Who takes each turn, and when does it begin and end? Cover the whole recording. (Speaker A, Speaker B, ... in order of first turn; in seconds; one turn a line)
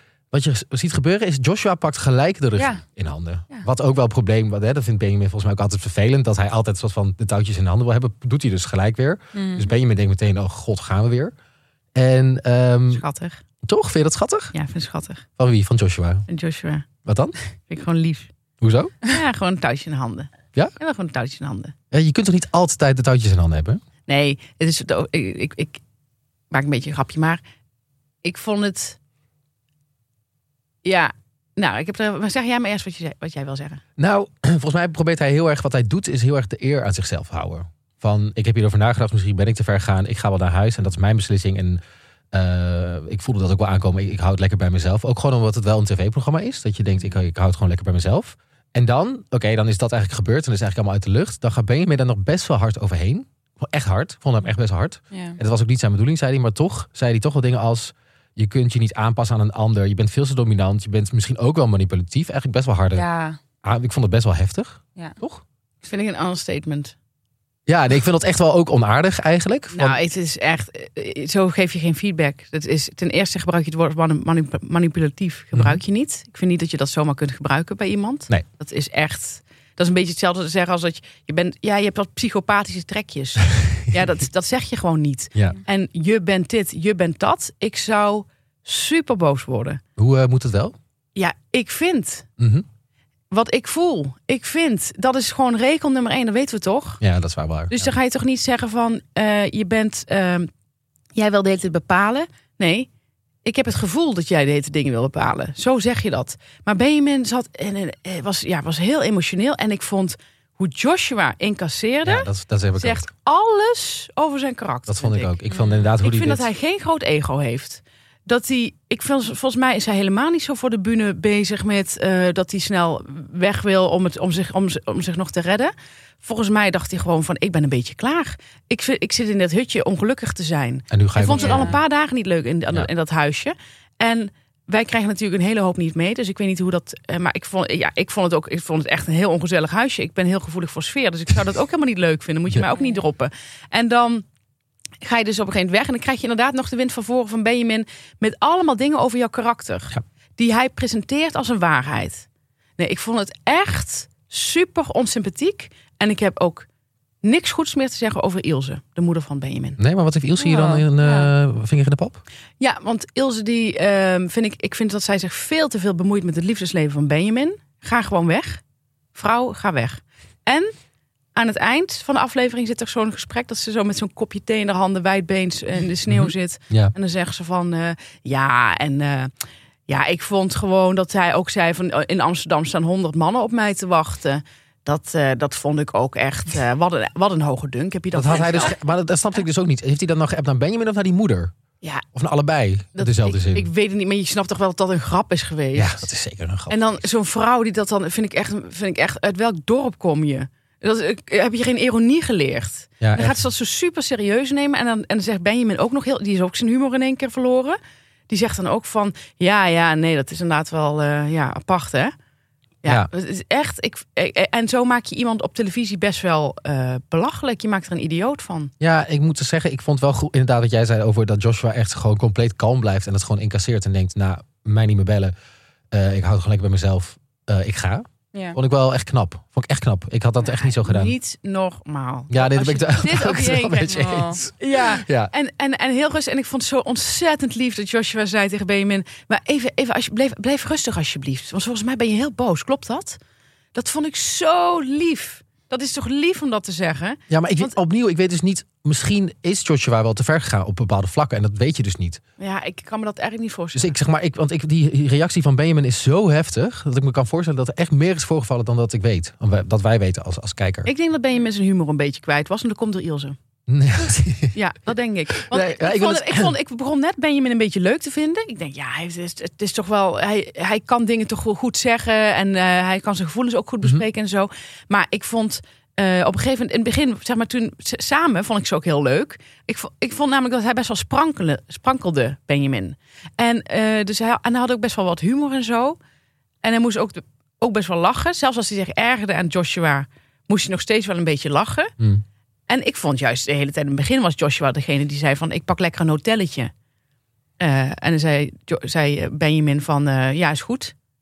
Speaker A: 0.3-11.3
Speaker B: 2.6-2.8
Speaker B: 9.3-9.7
Speaker A: 11.9-13.0
Speaker C: 12.9-13.4
Speaker A: 13.6-14.5
Speaker C: 14.5-15.2
Speaker A: 15.4-16.3
Speaker C: 16.3-16.9
Speaker A: 17.1-17.4
Speaker C: 17.7-18.3
Speaker A: 18.6-19.0
Speaker C: 19.0-21.8
Speaker A: 21.9-23.8
Speaker C: 24.1-25.8
Speaker C: 26.5-27.4
Speaker C: 28.2-29.0
Speaker C: 30.8-33.8
Speaker A: 34.0-41.8
Speaker A: 42.3-63.1
Speaker B: 55.1-55.4
Speaker B: 62.9-63.4
Speaker A: 63.6-65.4
Speaker C: 65.8-67.0
Speaker A: 67.7-70.0
Speaker C: 69.7-89.8
Speaker A: 75.5-75.8
Speaker A: 83.6-84.0
Speaker A: 90.0-90.8
Speaker C: 91.2-92.3
Speaker A: 92.4-92.7
Speaker C: 93.3-97.0
Speaker A: 97.0-97.9
Speaker C: 97.7-100.5
Speaker C: 101.2-102.9
Speaker C: 103.4-115.4
Speaker A: 112.0-113.1
Speaker A: 114.9-116.5
Speaker B: 115.5-115.9
Speaker C: 116.0-144.2
Speaker A: 130.9-131.8
Speaker B: 131.3-131.8
Speaker B: 142.7-143.0
Speaker C: 145.0-152.3
Speaker C: 152.8-156.7
Speaker C: 157.2-159.8
Speaker A: 159.8-162.2
Speaker B: 160.4-161.3
Speaker C: 162.6-168.6
Speaker C: 169.2-170.7
Speaker C: 171.3-179.3
Speaker A: 176.1-176.9
Speaker C: 179.9-188.8
Speaker A: 188.1-191.5
Speaker A: 192.1-193.7
Speaker C: 193.0-196.1
Speaker A: 195.8-197.0
Speaker C: 196.7-207.8
Speaker A: 203.0-203.4
Speaker C: 208.3-212.1
Speaker C: 212.8-218.7
Speaker A: 218.8-225.3
Speaker A: 225.9-231.2
Speaker C: 230.5-243.2
Speaker A: 232.3-235.3
Speaker B: 233.9-234.4
Speaker C: 243.7-247.8
Speaker A: 247.3-252.2
Speaker C: 252.4-254.0
Speaker A: 253.7-260.9
Speaker C: 260.9-263.4
Speaker A: 263.7-264.6
Speaker C: 264.5-286.0
Speaker A: 265.3-266.5
Speaker C: 286.6-291.9
Speaker C: 292.7-296.7
Speaker C: 297.6-300.9